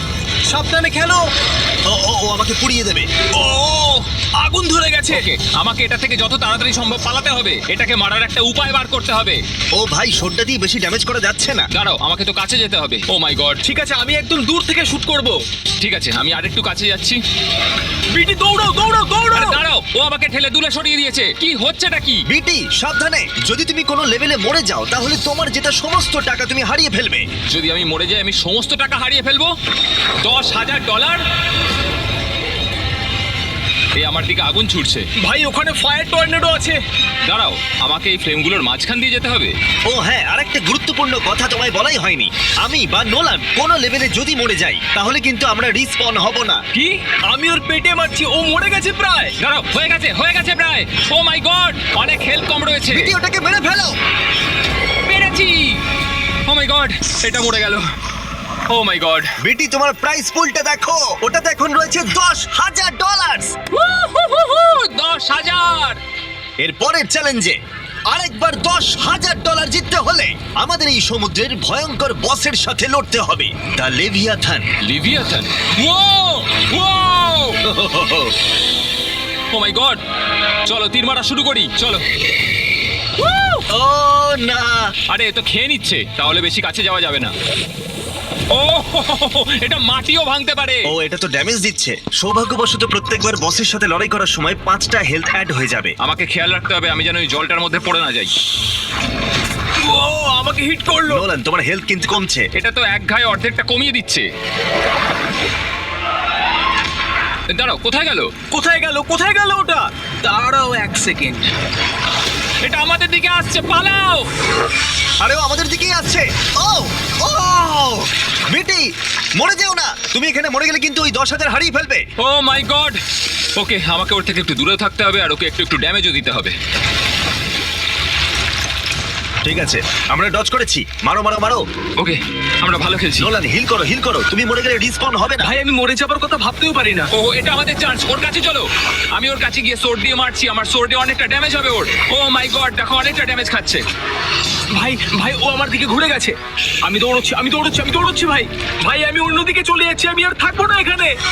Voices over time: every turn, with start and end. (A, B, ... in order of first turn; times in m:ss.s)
0:00.5-0:01.2 A
0:01.9-0:03.1 B
0:03.3-0:05.2 A
0:05.1-0:09.4 C
0:09.8-0:11.7 B
0:11.7-0:13.6 C
0:13.6-0:15.4 A
0:15.8-0:17.2 C
0:18.1-0:19.6 A
0:19.3-0:22.2 C
0:22.3-0:27.3 B
0:27.5-0:29.5 C
0:30.2-0:31.2 C
0:34.0-0:35.0 C
0:35.2-0:36.8 A
0:37.3-0:39.5 C
0:39.9-0:46.6 B
0:47.1-0:49.3 A
0:49.4-0:53.1 C
0:52.9-0:54.0 B
0:55.0-0:55.8 C
0:56.4-0:57.8 C
0:58.7-0:59.3 C
0:59.4-1:03.5 B
1:03.7-1:06.0 C
1:06.6-1:07.6 B
1:08.1-1:14.7 B
1:14.8-1:17.6 C
1:17.6-1:18.3 B
1:19.5-1:20.0 C
1:20.7-1:22.0 C
1:23.2-1:23.6 C
1:23.7-1:24.9 B
1:25.1-1:27.3 C
1:28.5-1:30.9 C
1:30.9-1:35.9 B
1:36.0-1:38.3 C
1:39.8-1:41.2 A
1:41.1-1:42.5 B
1:42.6-1:44.3 C
1:47.5-1:48.3 C
1:48.5-1:51.5 A
1:52.6-1:54.3 C
1:55.2-1:58.8 B
1:59.4-2:02.0 B
2:02.2-2:03.0 C
2:03.6-2:06.5 C
2:09.4-2:11.6 B
2:12.0-2:13.3 C
2:13.2-2:15.5 B
2:15.4-2:17.1 A
2:17.1-2:23.8 C
2:24.7-2:31.1 A